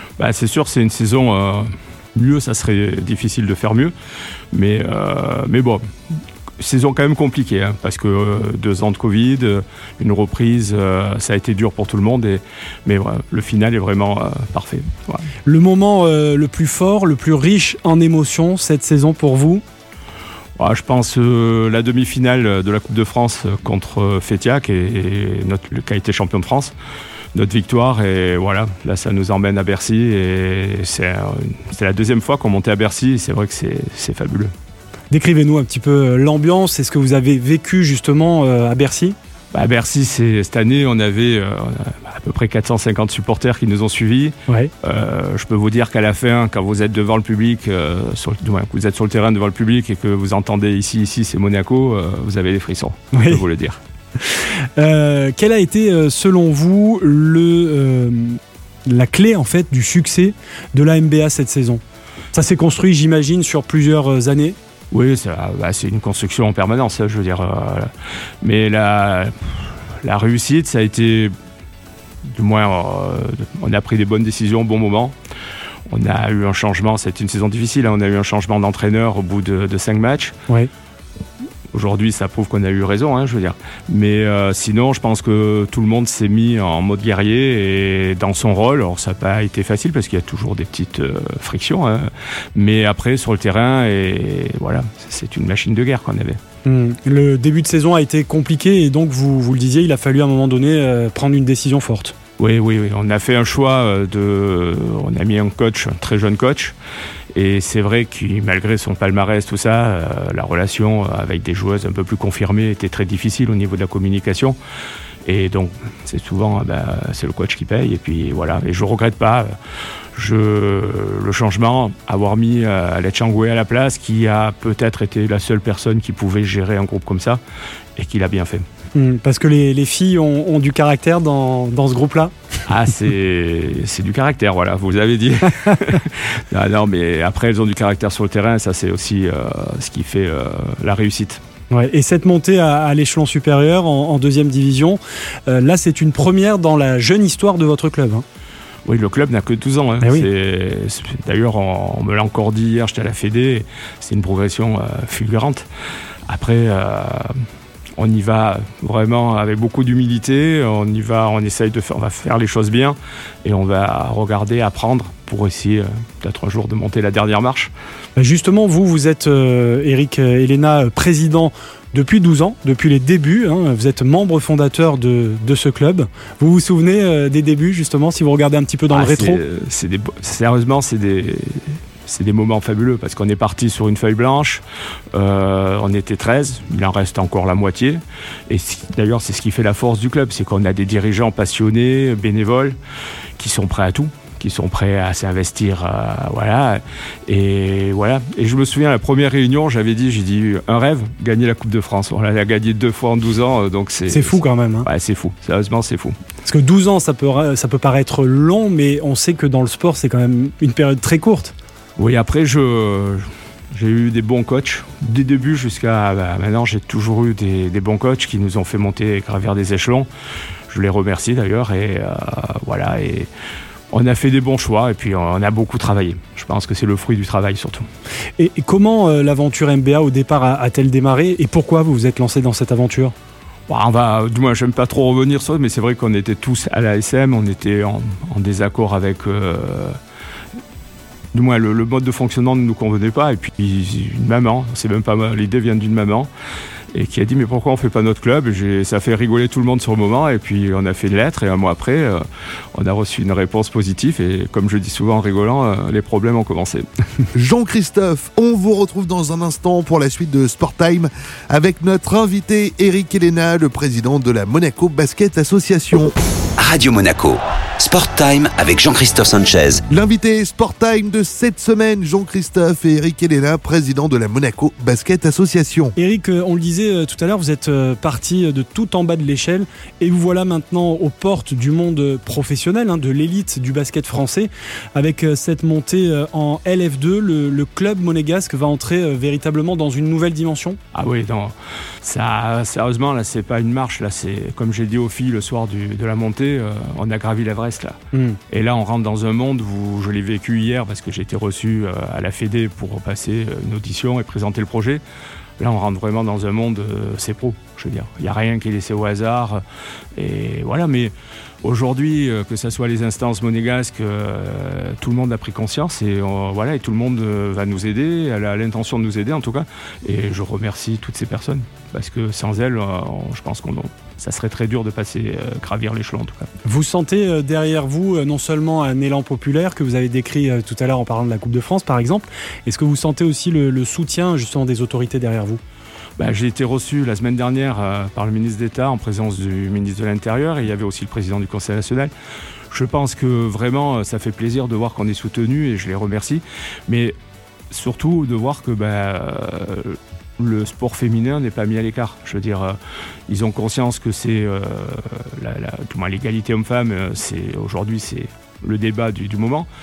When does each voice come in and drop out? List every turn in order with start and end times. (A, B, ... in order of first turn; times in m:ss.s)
0:00.2-0:03.9 A
0:04.5-0:15.3 A
0:15.5-0:19.6 B
0:20.6-0:26.8 A
0:27.3-0:34.5 A
0:35.1-0:39.2 B
0:39.5-0:53.8 A
0:53.1-0:53.4 B
0:54.2-1:01.8 B
1:02.3-1:04.6 B
1:04.9-1:07.9 A
1:08.4-1:11.3 A
1:12.3-1:15.2 A
1:15.9-1:20.4 A
1:21.7-1:36.4 A
1:36.6-1:42.2 B
1:42.4-1:46.8 A
1:47.3-1:54.6 A
1:55.2-1:59.5 A
2:00.2-2:07.4 A
2:08.0-2:08.6 A
2:09.0-2:12.4 B
2:12.7-2:21.4 A
2:21.7-2:28.2 B
2:28.8-2:35.7 A
2:30.0-2:30.3 B
2:36.3-2:37.4 A
2:38.0-2:47.7 A
2:48.2-2:59.4 B
2:58.9-3:04.6 A
3:05.1-3:12.8 A
3:13.4-3:26.2 A
3:24.1-3:24.9 B
3:26.4-3:31.6 B
3:32.0-3:40.1 A
3:40.7-3:43.3 A
3:43.9-3:47.9 A
3:48.4-3:53.1 B
3:53.7-4:00.0 A
4:01.3-4:06.3 A
4:06.9-4:16.9 A
4:17.4-4:26.1 C
4:26.6-4:29.8 D
4:29.9-4:35.9 C
4:36.0-4:50.8 B
4:50.9-4:58.0 A
4:58.1-4:58.4 B
4:58.5-5:05.0 A
5:05.6-5:09.6 A
5:10.2-5:26.5 A
5:26.6-5:35.6 B
5:36.2-5:42.1 A
5:42.7-5:47.2 A
5:47.7-5:52.8 A
5:53.3-5:59.7 A